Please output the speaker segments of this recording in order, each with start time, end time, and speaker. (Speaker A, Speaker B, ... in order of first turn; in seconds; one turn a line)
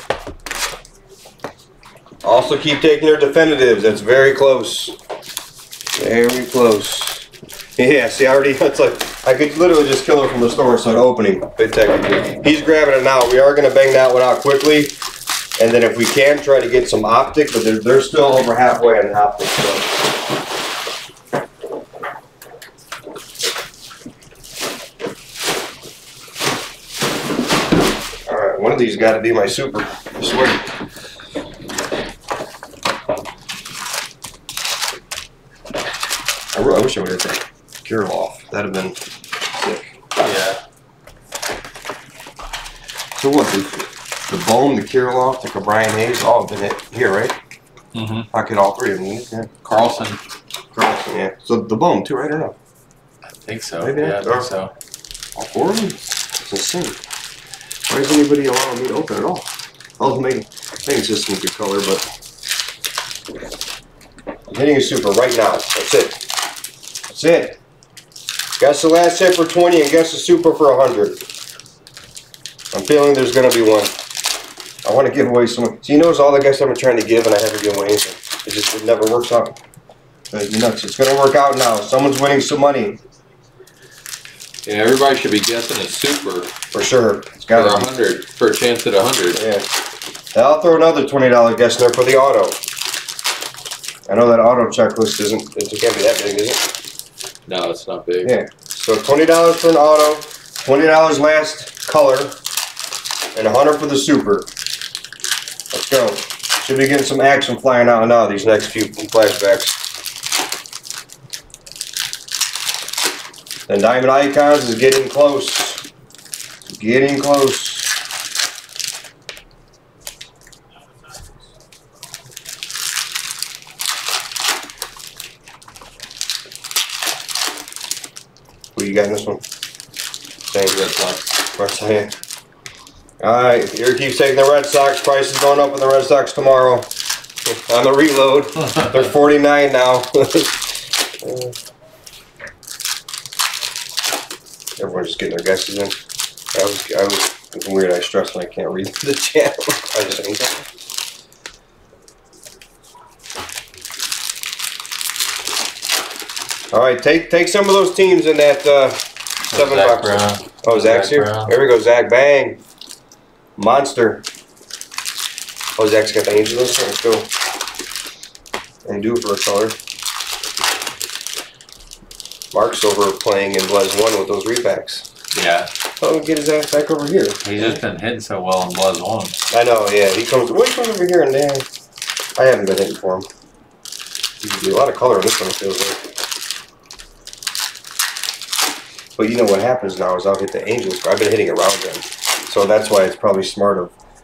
Speaker A: 2.2-5.0
Speaker A: 6.0-14.9
Speaker A: 15.6-20.0
Speaker A: 28.2-30.7
Speaker A: 36.5-40.0
Speaker B: 40.2-40.6
Speaker A: 43.2-47.4
Speaker B: 47.9-48.3
Speaker A: 48.3-49.5
Speaker B: 49.6-50.2
Speaker A: 50.7-52.6
Speaker B: 53.3-54.7
Speaker A: 53.8-54.5
Speaker A: 55.4-57.0
Speaker A: 57.9-62.1
Speaker A: 64.5-66.2
Speaker A: 67.1-67.6
Speaker A: 68.6-71.2
Speaker A: 72.7-73.9
Speaker A: 74.8-79.6
Speaker A: 80.3-83.0
Speaker B: 84.7-86.5
Speaker A: 86.7-87.9
Speaker B: 87.5-89.4
Speaker A: 89.3-89.7
Speaker A: 90.3-92.6
Speaker A: 94.1-96.7
Speaker B: 97.5-98.3
Speaker A: 98.2-102.4
Speaker A: 103.3-104.5
Speaker A: 105.7-109.8
Speaker A: 113.7-115.8
Speaker A: 116.7-118.0
Speaker A: 128.8-129.4
Speaker A: 130.5-130.8
Speaker B: 130.7-131.3
Speaker A: 131.4-132.2
Speaker A: 133.2-136.9
Speaker A: 137.5-141.6
Speaker A: 144.8-146.0
Speaker A: 146.5-150.7
Speaker A: 156.7-162.6
Speaker B: 159.5-161.5
Speaker A: 163.6-164.2
Speaker A: 165.8-167.3
Speaker A: 168.8-169.8
Speaker A: 172.5-175.1
Speaker B: 175.3-175.7
Speaker A: 176.0-177.8
Speaker B: 177.4-179.4
Speaker A: 179.5-181.7
Speaker A: 182.4-183.3
Speaker A: 184.4-186.1
Speaker A: 189.2-193.9